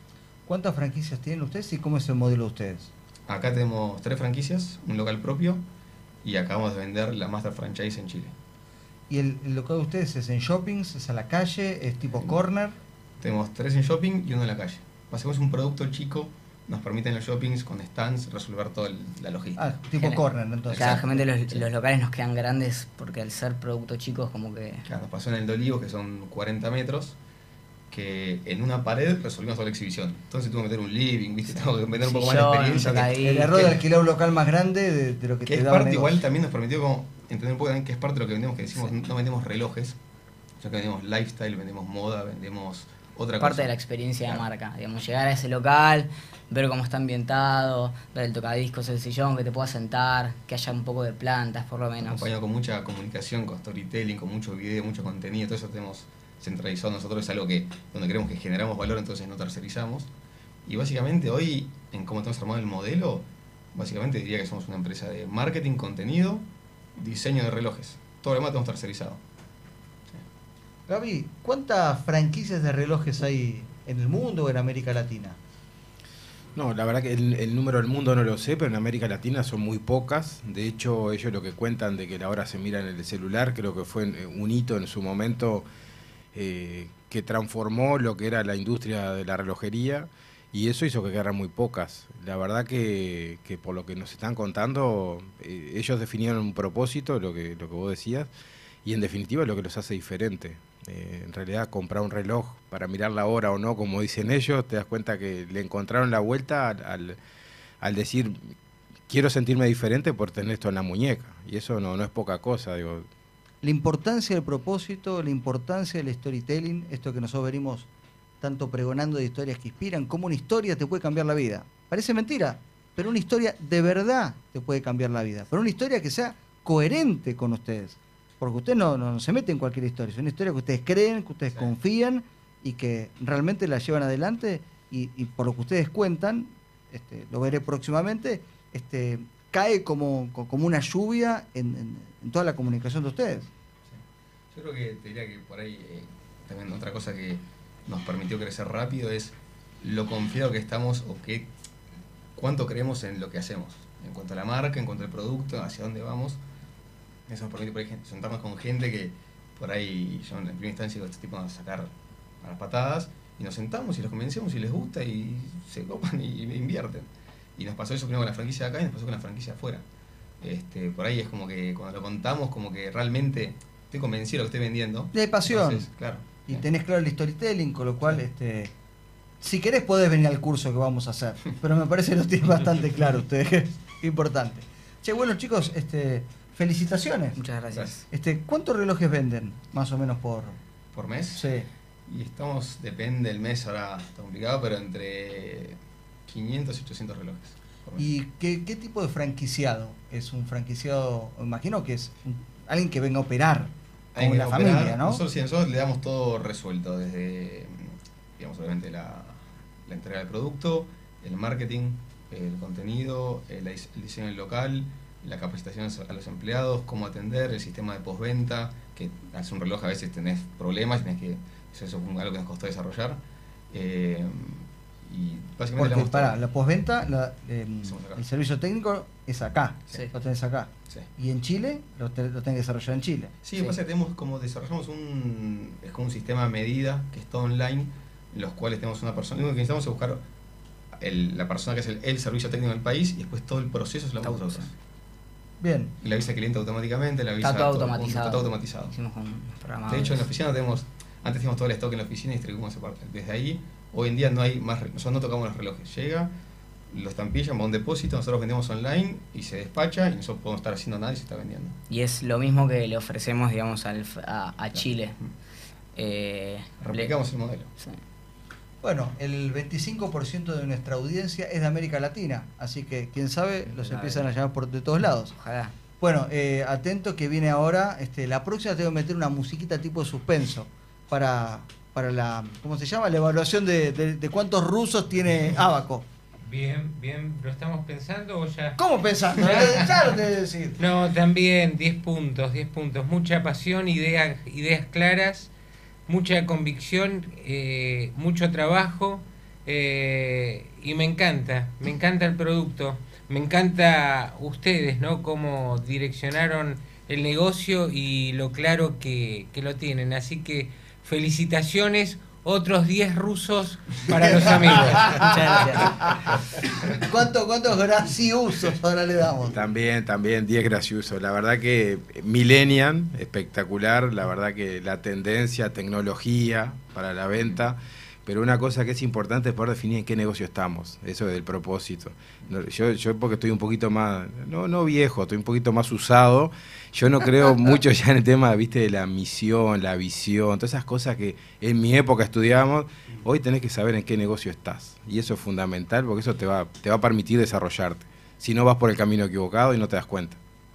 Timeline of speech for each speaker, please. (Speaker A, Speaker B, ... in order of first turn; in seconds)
Speaker A: 0.5-2.9, 9.1-12.8, 19.6-21.0, 33.2-36.2, 70.9-75.4, 113.6-117.9, 118.4-143.5, 175.1-175.9, 176.5-178.7, 179.4-187.4, 188.1-190.6, 191.3-191.7, 198.0-205.2, 225.8-233.8, 245.6-245.9, 268.8-275.3, 276.0-286.1, 288.8-290.8, 314.2-314.6, 315.9-316.3, 316.9-319.6
Speaker B: 3.3-5.7, 6.2-8.3, 13.2-19.7, 20.7-21.7, 24.9-27.2, 27.9-33.8, 35.5-40.0, 40.6-44.5, 52.0-60.1, 60.7-66.5, 67.0-69.2, 144.5-151.5, 152.4-156.4, 157.3-169.8, 170.4-176.7, 190.9-191.5, 192.1-198.1, 204.1-226.4, 227.8-228.2, 233.4-240.2, 241.0-244.7, 246.0-248.9, 249.9-256.3, 256.9-261.8, 264.8-265.3, 266.8-267.7
Speaker C: 20.0-20.2, 20.7-24.8, 32.0-33.5, 43.4-52.3, 187.3-188.1, 244.2-244.7, 247.4-250.3, 261.9-265.2, 265.9-267.1, 273.7-274.3, 275.3-275.7, 315.2-315.9
Speaker D: 76.5-85.7, 86.3-98.3, 98.8-107.2, 107.8-108.4, 109.1-113.1, 319.6-350.4
Speaker E: 286.5-288.8, 289.4-289.9, 290.8-295.5, 296.1-315.3